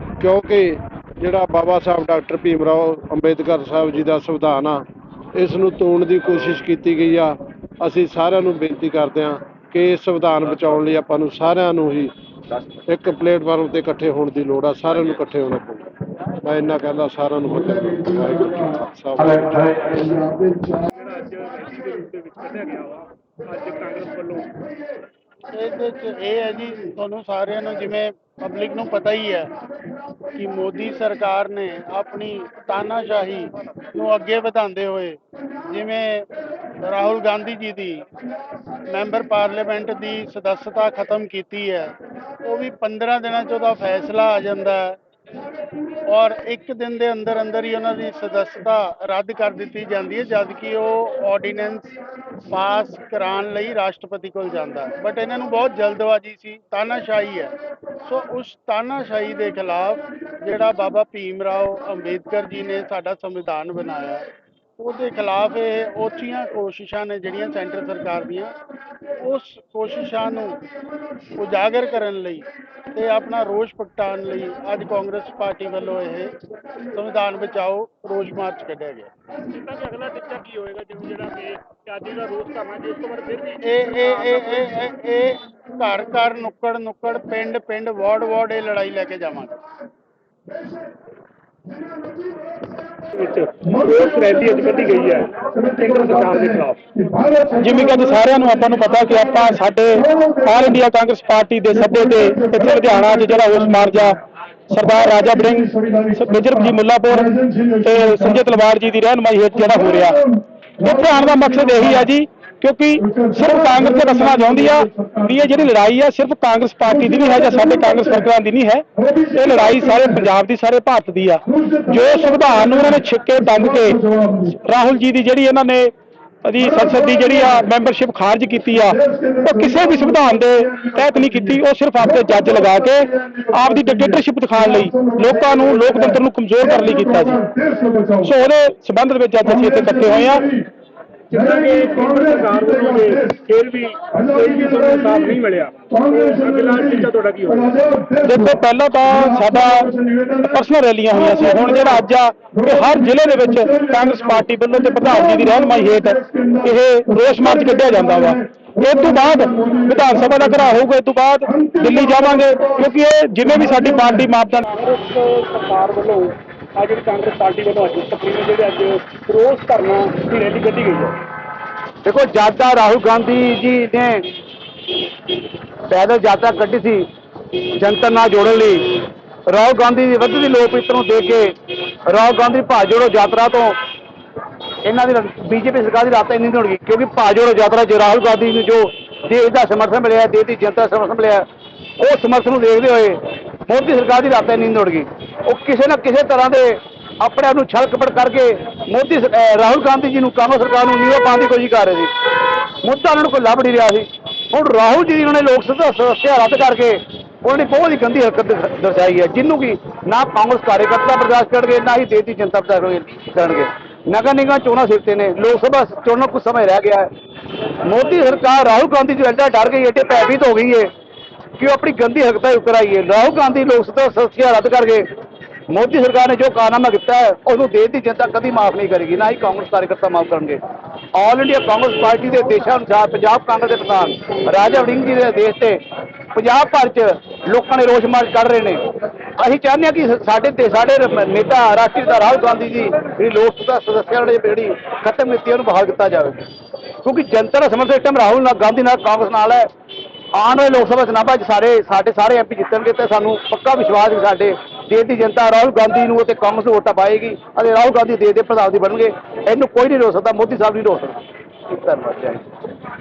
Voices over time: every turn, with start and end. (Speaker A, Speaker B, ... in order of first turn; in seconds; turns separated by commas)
Speaker A: 0.2-12.1, Speaker A: 12.9-15.8, Speaker A: 16.4-20.7, Speaker B: 20.9-24.5, Speaker C: 25.5-29.5, Speaker C: 30.4-35.2, Speaker C: 35.7-36.2, Speaker C: 36.8-37.9, Speaker C: 38.9-41.9, Speaker C: 42.4-44.9, Speaker C: 46.1-51.9, Speaker C: 52.5-57.5, Speaker C: 58.1-64.2, Speaker C: 64.8-68.5, Speaker C: 69.2-70.5, Speaker C: 71.4-72.4, Speaker C: 73.0-76.2, Speaker C: 77.0-79.1, Speaker B: 79.5-84.3, Speaker C: 83.6-89.5, Speaker B: 93.1-96.8, Speaker D: 97.5-104.2, Speaker D: 104.7-110.2, Speaker D: 110.8-125.9, Speaker D: 126.4-137.5, Speaker D: 138.2-140.5, Speaker B: 141.3-147.9, Speaker D: 148.1-164.6, Speaker B: 164.6-171.2, Speaker E: 172.0-174.2, Speaker E: 175.9-177.1, Speaker E: 177.8-178.8, Speaker E: 179.5-181.5, Speaker E: 182.1-183.8, Speaker E: 184.8-191.4, Speaker E: 192.0-202.1, Speaker E: 202.8-217.1, Speaker E: 217.9-220.9, Speaker E: 221.6-225.1, Speaker E: 225.7-230.6, Speaker E: 231.2-235.8, Speaker E: 236.3-238.8, Speaker E: 239.4-246.4, Speaker E: 247.0-249.7, Speaker E: 250.3-261.2, Speaker E: 261.8-262.4